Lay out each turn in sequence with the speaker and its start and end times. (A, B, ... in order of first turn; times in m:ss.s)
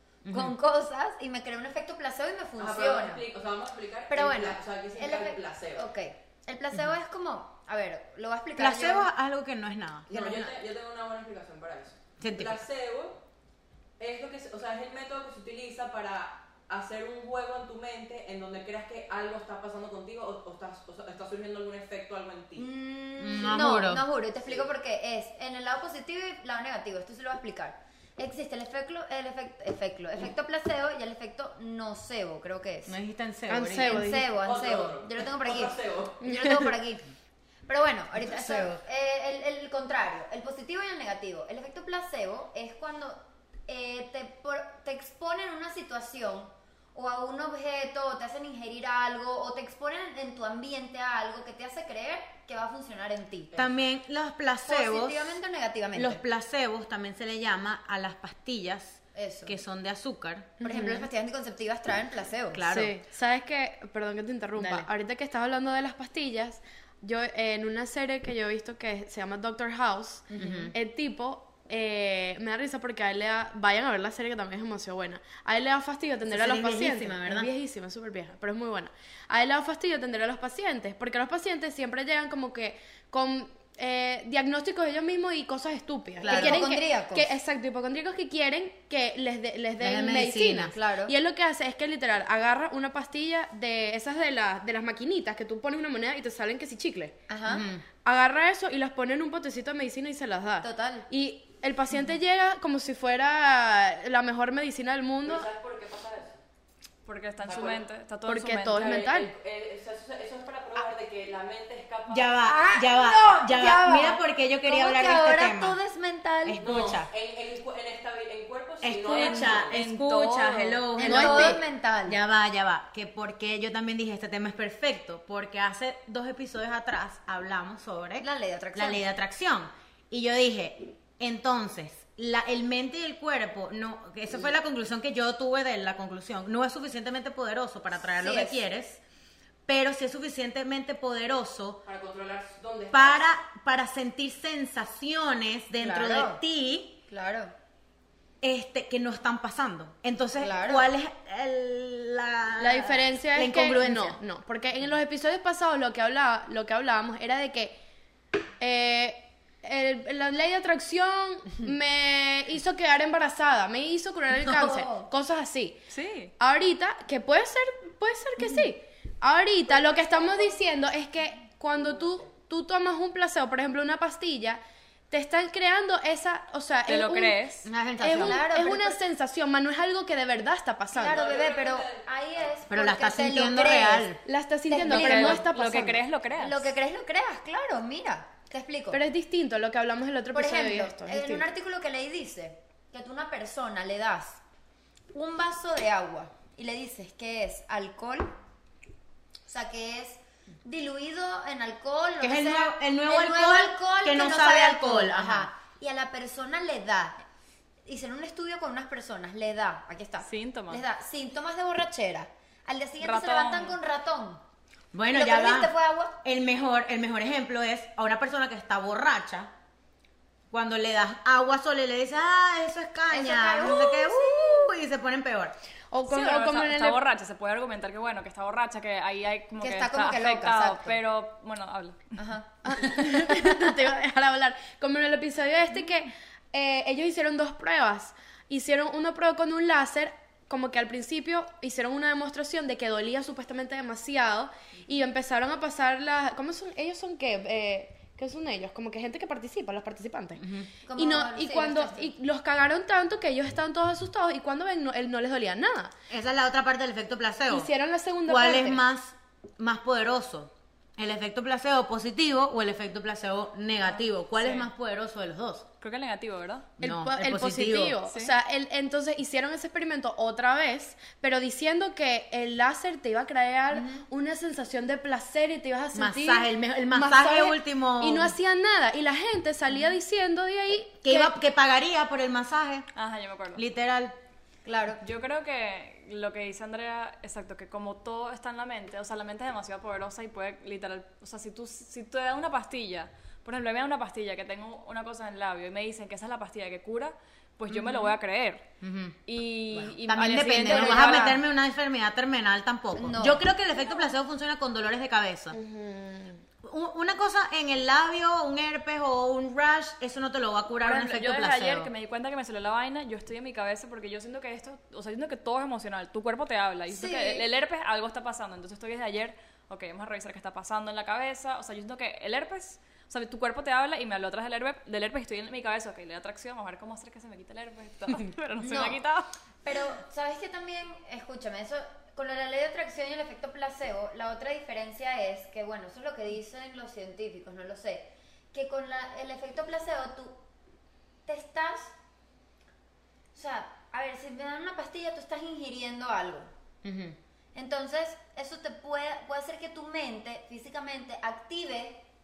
0:00.2-0:00.6 A
0:00.3-0:03.3 B
0:02.6-0:05.9 C
0:04.1-0:09.1 B
0:08.6-0:10.5 A
0:10.1-0:13.2 C
0:12.2-0:12.6 A
0:14.0-0:22.7 C
0:22.6-0:33.0 B
0:23.2-0:24.1 A
0:32.9-0:34.1 A
0:33.5-0:34.3 D
0:33.8-0:37.1 B
0:34.3-0:36.3 C
0:36.3-0:36.7 D
0:37.7-0:53.6 B
0:53.5-0:53.8 C
0:53.6-0:55.4 A
0:54.7-0:56.2 B
0:55.9-1:00.6 A
0:59.2-0:59.6 B
1:00.6-1:01.1 D
1:00.6-1:02.6 B
1:02.5-1:02.9 A
1:02.7-1:37.2 D
1:04.6-1:04.9 A
1:10.3-1:10.7 B
1:10.4-1:10.8 A
1:16.2-1:17.5 A
1:26.2-1:26.6 A
1:26.2-1:27.3 B
1:29.8-1:30.8 A
1:30.7-1:31.1 B
1:37.3-1:37.7 B
1:37.5-1:37.8 A
1:38.0-1:45.5 D
1:40.6-1:41.1 B
1:45.2-1:46.4 C
1:47.1-1:49.1 E
1:47.4-1:47.9 C
1:48.3-1:49.3 D
1:48.8-1:52.4 C
1:52.1-1:55.8 A
1:52.4-1:56.8 B
1:56.4-1:57.1 A
1:56.6-1:59.8 C
1:58.8-2:19.0 A
1:59.1-2:00.9 E
2:01.0-2:02.2 B
2:01.0-2:01.6 D
2:08.2-2:09.1 B
2:18.2-2:18.6 B
2:19.7-2:21.8 A
2:21.8-2:23.2 C
2:22.9-2:27.0 A
2:25.8-2:26.4 B
2:27.1-2:27.5 B
2:28.4-2:34.2 A
2:30.4-2:30.9 B
2:32.6-2:37.8 D
2:38.6-2:45.8 D
2:44.4-2:45.1 B
2:45.9-2:46.3 E
2:46.4-2:57.5 D
2:49.7-2:50.6 B
2:56.9-2:57.7 E
2:57.6-2:58.4 A
2:58.0-3:01.2 D
2:58.1-2:59.0 B
3:00.9-3:04.1 B
3:01.0-3:02.6 C
3:02.7-3:04.2 A
3:04.2-3:06.0 D
3:04.7-3:05.5 B
3:04.8-3:06.7 E
3:06.4-3:09.0 B
3:08.9-3:11.5 D
3:10.3-3:14.4 B
3:15.1-3:18.3 B
3:19.5-3:27.2 B
3:22.2-3:25.5 A
3:27.8-3:34.4 B
3:30.2-3:30.8 E
3:33.0-3:33.8 E
3:34.9-3:39.5 A
3:35.1-3:36.2 B
3:40.5-3:45.6 A
3:43.1-3:44.6 B
3:45.9-3:47.0 D
3:46.1-3:52.2 E
3:49.6-3:51.0 B
3:52.2-3:52.6 B
3:52.6-4:15.9 D
4:10.4-4:10.7 A
4:10.8-4:12.1 B
4:16.1-4:17.7 A
4:17.5-4:18.8 D
4:18.2-4:25.7 A
4:25.8-4:26.7 E
4:26.8-4:28.0 A
4:26.8-4:41.3 D
4:28.1-4:28.3 E
4:35.9-4:38.4 A
4:41.0-4:42.9 A
4:43.0-4:43.6 E
4:43.5-4:44.2 A
4:44.6-4:45.0 B
4:45.0-4:58.6 E
4:57.7-4:58.1 A
4:58.8-4:59.2 A
4:59.3-5:01.4 E
4:59.7-5:05.6 A
5:00.6-5:01.4 B
5:03.0-5:03.4 B
5:05.5-5:06.4 D
5:06.6-5:11.9 A
5:10.8-5:29.3 E
5:16.9-5:17.4 B
5:28.6-5:29.0 B
5:29.6-5:40.4 B
5:41.3-5:41.9 B
5:43.3-5:46.5 B
5:46.8-5:47.2 A
5:47.6-5:52.0 B